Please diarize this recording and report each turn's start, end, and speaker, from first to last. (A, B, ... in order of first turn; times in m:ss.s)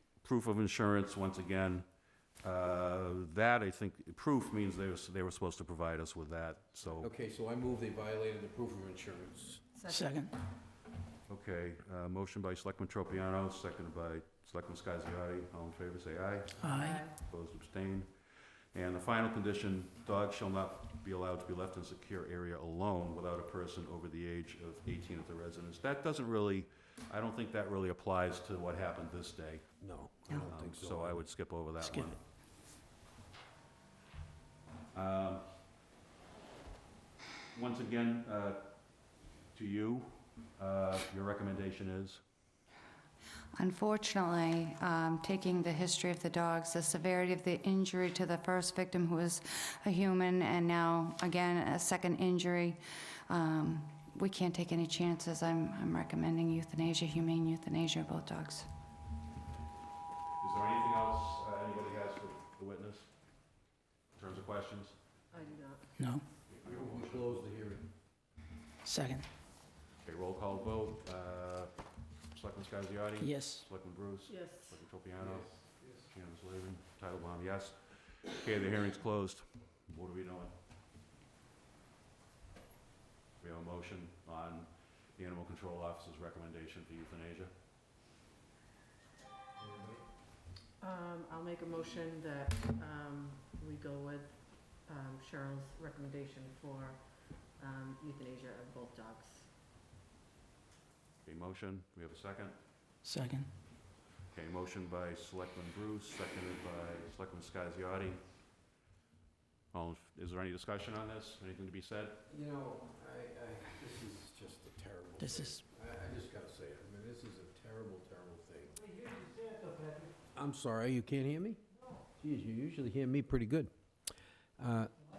0:00.2-0:01.9 A
0:02.4-0:07.1 A
0:07.0-0:09.6 B
0:09.8-0:10.2 C
0:09.9-0:10.4 D
0:11.3-0:18.1 A
0:16.6-0:17.1 D
0:16.7-0:17.2 C
0:18.7-0:29.7 A
0:29.8-0:31.3 B
0:30.5-0:32.2 A
0:31.8-0:32.2 D
0:34.9-0:35.5 A
0:37.5-0:38.7 A
0:39.5-0:42.2 A
0:43.6-0:58.7 E
1:00.4-1:03.1 A
1:04.2-1:05.0 A
1:05.3-1:05.9 C
1:06.0-1:06.2 D
1:06.5-1:07.5 A
1:06.6-1:07.9 B
1:08.8-1:09.3 D
1:10.0-1:11.7 A
1:12.3-1:20.5 A
1:13.2-1:13.7 D
1:14.3-1:14.8 C
1:15.2-1:16.1 B
1:23.4-1:27.5 A
1:29.6-1:30.0 B
1:30.8-1:39.5 C
1:41.2-1:42.6 A
1:43.0-1:43.5 D
1:44.3-1:48.2 A
1:49.7-1:52.2 A
1:52.3-1:59.1 B
1:55.2-1:55.6 D
2:00.3-2:01.6 B
2:02.2-2:03.7 B
2:04.6-2:04.9 B